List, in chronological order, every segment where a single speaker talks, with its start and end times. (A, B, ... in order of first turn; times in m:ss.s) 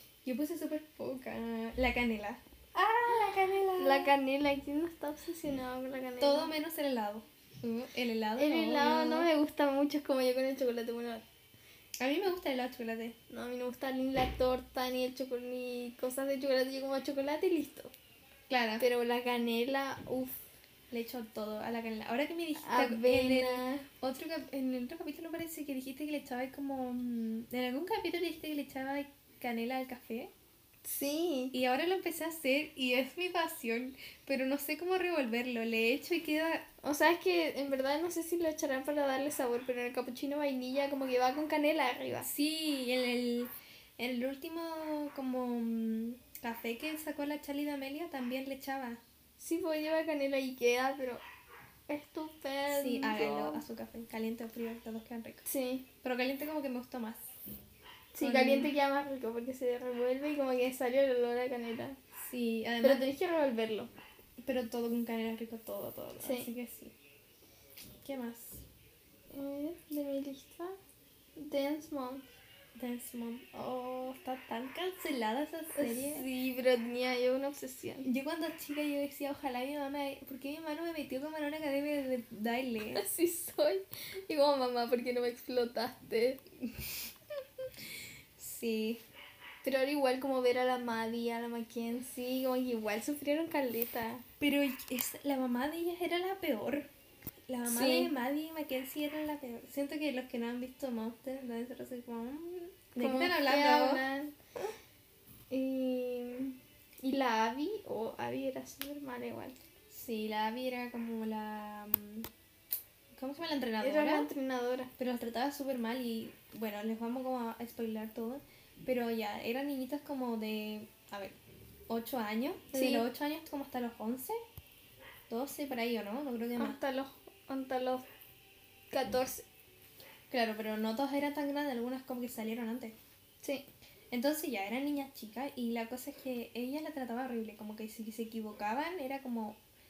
0:00.2-0:04.1 A
0:03.8-0:06.5 B
0:06.2-0:09.3 A
0:08.4-0:11.2 B
0:12.0-0:13.2 A
0:13.3-0:17.9 B
0:18.5-0:18.8 A
0:18.8-0:20.4 B
0:20.9-0:30.3 A
0:22.6-0:23.8 B
0:30.8-0:31.5 B
0:31.5-0:36.6 A
0:36.8-0:42.3 B
0:42.2-0:49.0 A
0:49.4-0:51.2 B
0:51.9-0:53.6 B
0:52.7-0:55.4 A
0:55.4-0:55.8 B
0:56.0-0:57.3 A
0:58.1-1:02.0 B
0:58.2-0:58.7 A
1:02.2-1:03.0 A
1:02.8-1:03.9 B
1:04.4-1:06.9 A
1:06.2-1:06.5 B
1:08.0-1:08.6 A
1:09.3-1:10.8 B
1:11.4-1:12.2 B
1:12.8-1:16.2 A
1:15.7-1:18.1 B
1:18.0-1:23.0 A
1:22.9-1:26.4 B
1:28.4-1:29.0 A
1:29.6-1:34.2 B
1:34.4-1:36.9 A
1:37.5-1:44.0 A
1:37.6-1:38.1 B
1:43.0-1:44.3 B
1:45.5-1:49.6 B
1:49.9-1:52.3 A
1:53.1-1:54.3 A
1:53.8-1:54.9 B
1:55.0-2:01.4 A
2:01.9-2:04.4 A
2:02.7-2:03.0 B
2:05.3-2:06.8 A
2:06.6-2:08.0 B
2:08.9-2:09.4 B
2:10.3-2:13.0 A
2:14.1-2:19.6 A